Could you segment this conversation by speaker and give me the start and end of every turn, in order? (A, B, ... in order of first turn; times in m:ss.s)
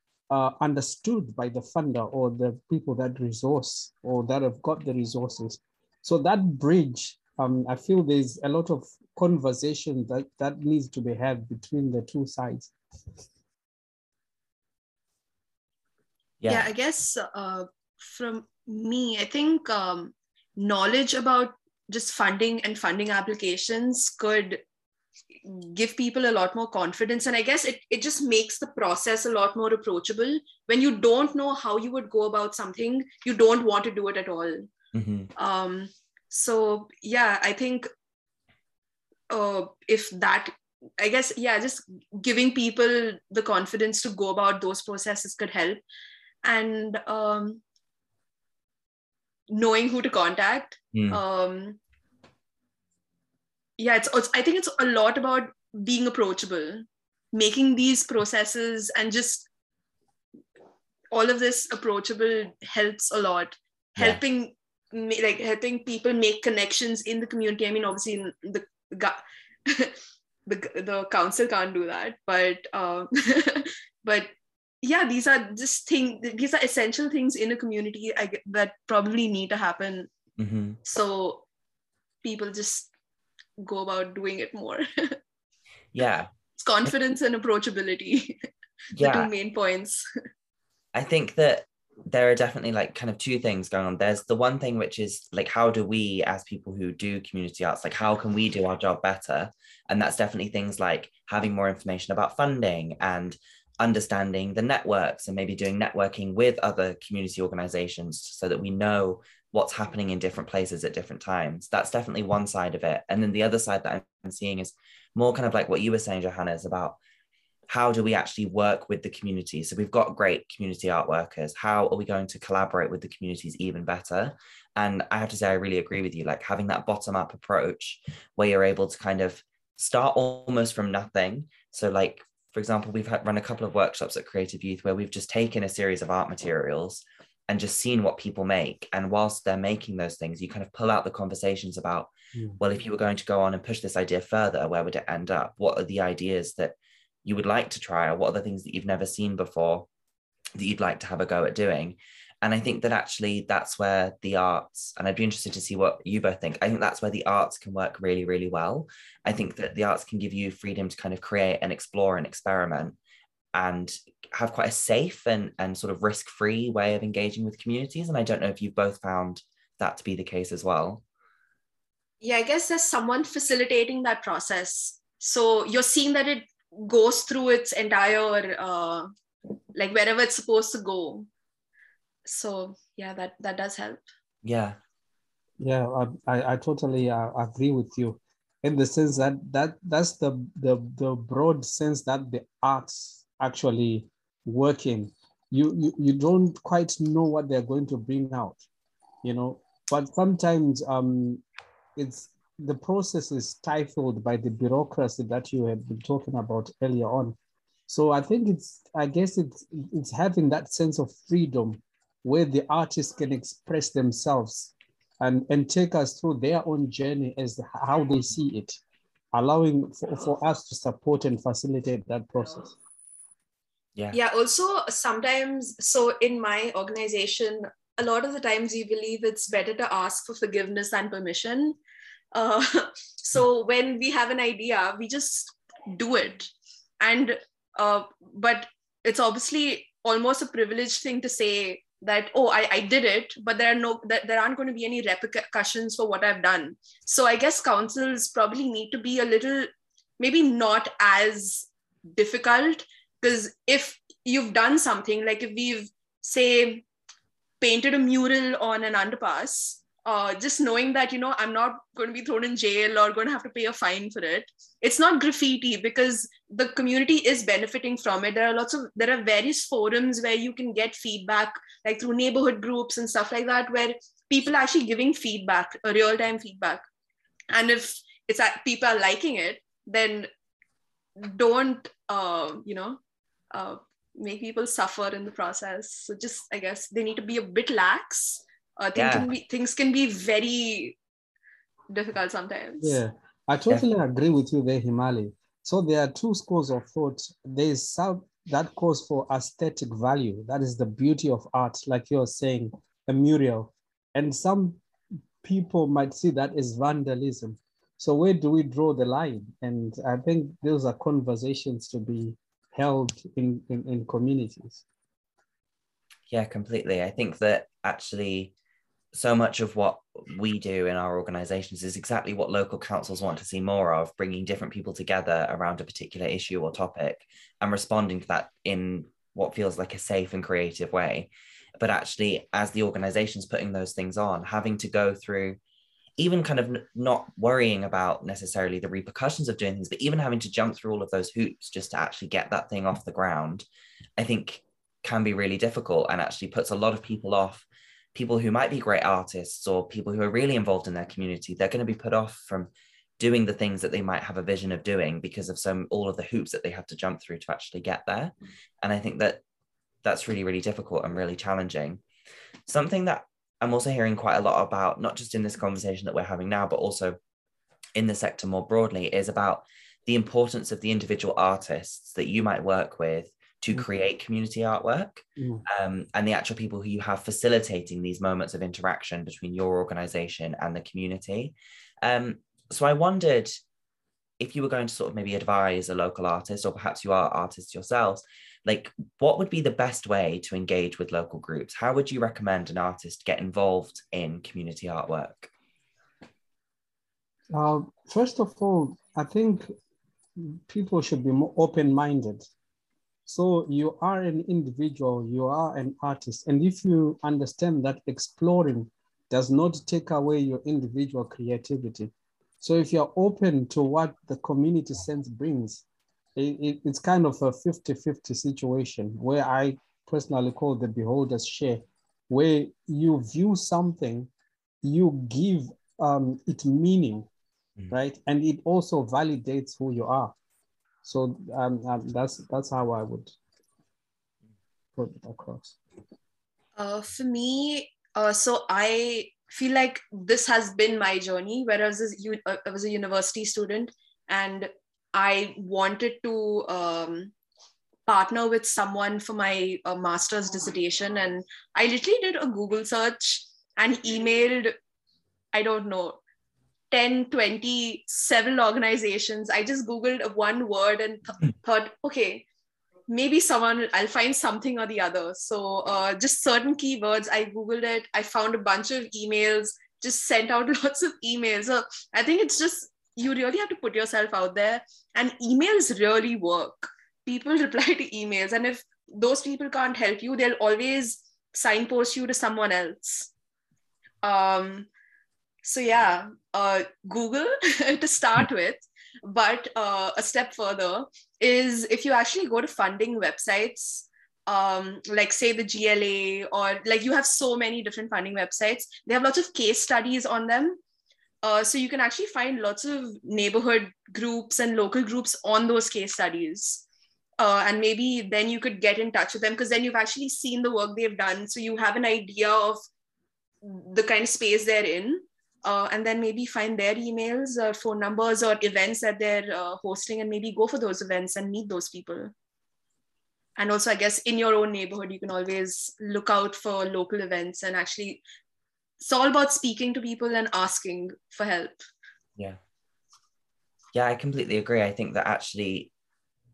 0:00.3-0:12.7 A
0:16.4-0:16.7 B
0:16.5-0:24.6 C
0:25.4-0:34.7 C
0:34.9-0:35.3 B
0:35.4-0:37.9 C
0:39.3-0:45.8 C
0:46.4-0:47.6 C
0:49.5-0:51.8 C
0:50.9-0:51.2 B
0:53.8-0:59.5 C
1:01.1-1:09.9 C
1:10.4-1:14.3 C
1:14.8-1:20.1 C
1:20.4-1:20.8 B
1:20.8-1:21.4 C
1:22.2-1:22.9 C
1:23.6-1:25.2 C
1:25.9-1:26.3 B
1:26.6-1:28.4 C
1:29.0-1:29.3 B
1:29.0-1:30.0 C
1:30.9-1:57.0 B
1:57.7-2:29.9 B
2:30.6-2:43.0 B
2:43.5-2:51.0 B
2:52.2-2:59.1 C
2:59.8-3:01.3 C
3:02.2-3:04.0 C
3:04.4-3:04.8 B
3:05.6-3:18.6 A
3:19.2-3:21.4 A
3:22.0-3:27.4 A
3:27.9-3:38.8 A
3:39.3-3:42.8 A
3:44.1-3:51.8 C
3:52.3-4:16.8 C
4:17.6-4:36.8 C
4:37.5-4:40.3 C
4:41.2-4:43.0 C
4:43.5-4:51.0 C
4:48.9-4:49.3 B
4:51.9-4:53.0 C
4:52.8-5:04.8 A
5:05.4-5:14.8 A
5:16.3-5:18.5 B
5:19.1-5:35.6 B
5:36.2-5:43.6 B
5:44.2-5:59.4 B
6:00.0-6:02.0 B
6:02.7-6:07.2 B
6:08.0-6:23.6 B
6:15.4-6:15.6 A
6:24.4-6:35.5 B
6:37.5-6:39.7 A
6:40.4-6:42.5 A
6:43.2-6:55.8 A
6:56.4-7:04.3 A
7:04.8-7:07.3 A
7:07.9-7:10.3 A
7:11.0-7:13.3 A
7:15.0-7:15.8 A
7:16.8-7:27.3 C
7:28.1-7:34.7 C
7:35.5-7:36.2 C
7:36.9-7:42.4 C
7:43.1-8:03.3 C
8:04.2-8:04.9 C
8:05.6-8:20.8 C
8:21.4-8:26.8 C
8:27.4-8:32.8 C
8:33.6-8:42.3 C
8:43.6-8:48.2 C
8:49.0-8:51.8 C
8:53.9-8:55.9 B